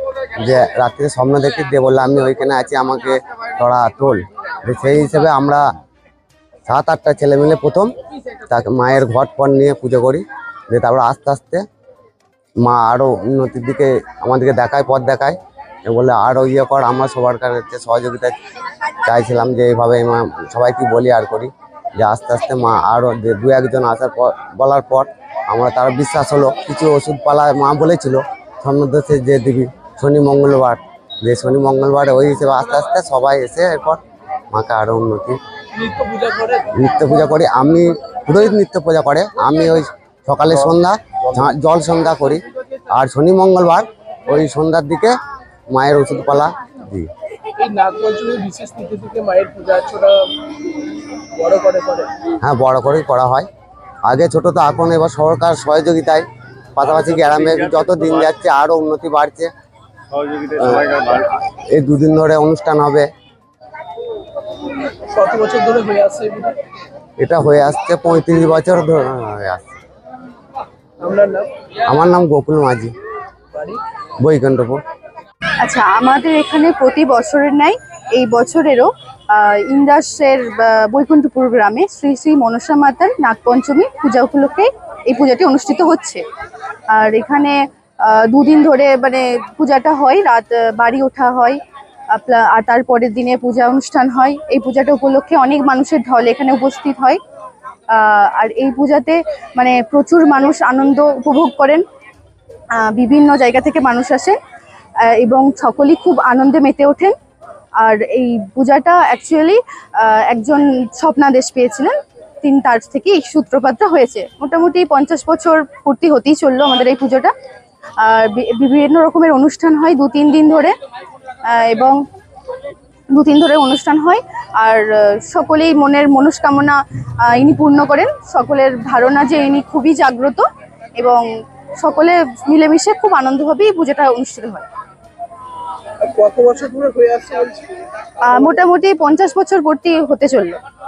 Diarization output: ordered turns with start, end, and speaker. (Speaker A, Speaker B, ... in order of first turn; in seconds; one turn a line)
Speaker A: 0.4-5.6
Speaker A: 6.7-7.9
Speaker A: 8.5-11.6
Speaker A: 12.6-18.4
Speaker A: 19.1-34.0
Speaker A: 34.5-35.4
Speaker B: 35.7-36.6
Speaker A: 36.8-45.1
Speaker A: 45.7-47.1
Speaker B: 47.6-50.3
Speaker B: 51.4-52.1
Speaker A: 52.4-53.5
Speaker A: 54.0-59.5
Speaker A: 60.6-63.1
Speaker B: 65.1-66.5
Speaker A: 67.2-69.7
Speaker B: 71.0-71.5
Speaker A: 71.8-72.9
Speaker B: 73.5-73.8
Speaker A: 74.2-74.8
Speaker C: 75.6-86.2
Speaker C: 86.9-91.6
Speaker C: 92.1-97.2
Speaker C: 97.9-101.8
Speaker C: 102.8-104.4
Speaker C: 105.1-107.1
Speaker C: 107.8-111.9
Speaker C: 112.4-117.3
Speaker C: 118.0-120.7
Speaker C: 121.5-122.0
Speaker C: 123.1-130.4
Speaker C: 131.0-131.2
Speaker C: 131.8-134.7
Speaker B: 136.0-137.7
Speaker C: 138.3-140.6